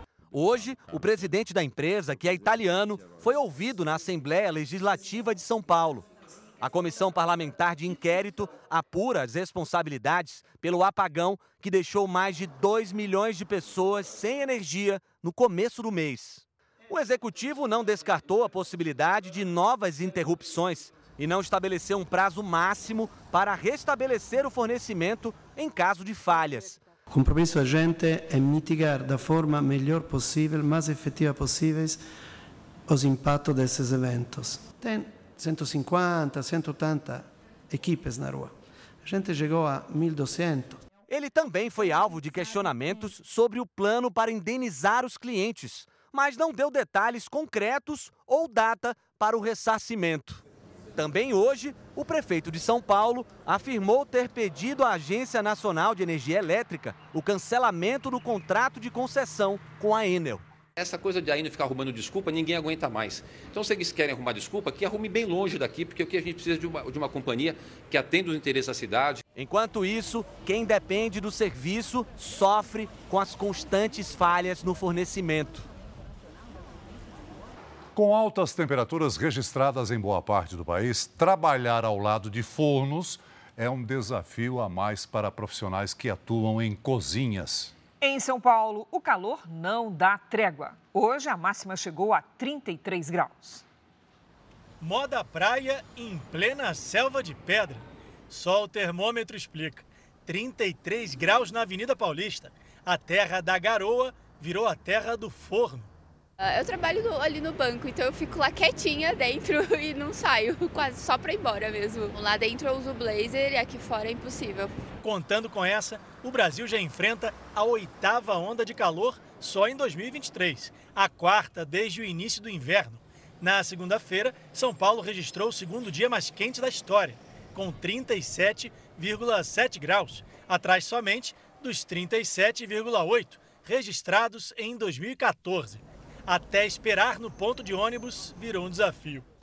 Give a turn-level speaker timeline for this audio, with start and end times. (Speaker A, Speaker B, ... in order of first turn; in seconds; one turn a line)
Speaker A: 0.3-6.0
Speaker A: 6.6-26.8
Speaker B: 27.1-32.0
Speaker B: 32.9-38.5
Speaker B: 39.0-40.8
Speaker A: 41.1-50.4
Speaker A: 50.9-60.4
Speaker C: 60.8-69.2
Speaker A: 69.3-75.7
Speaker D: 77.9-87.7
Speaker E: 88.0-93.6
Speaker F: 94.8-105.9
Speaker G: 106.4-114.7
Speaker F: 115.0-139.2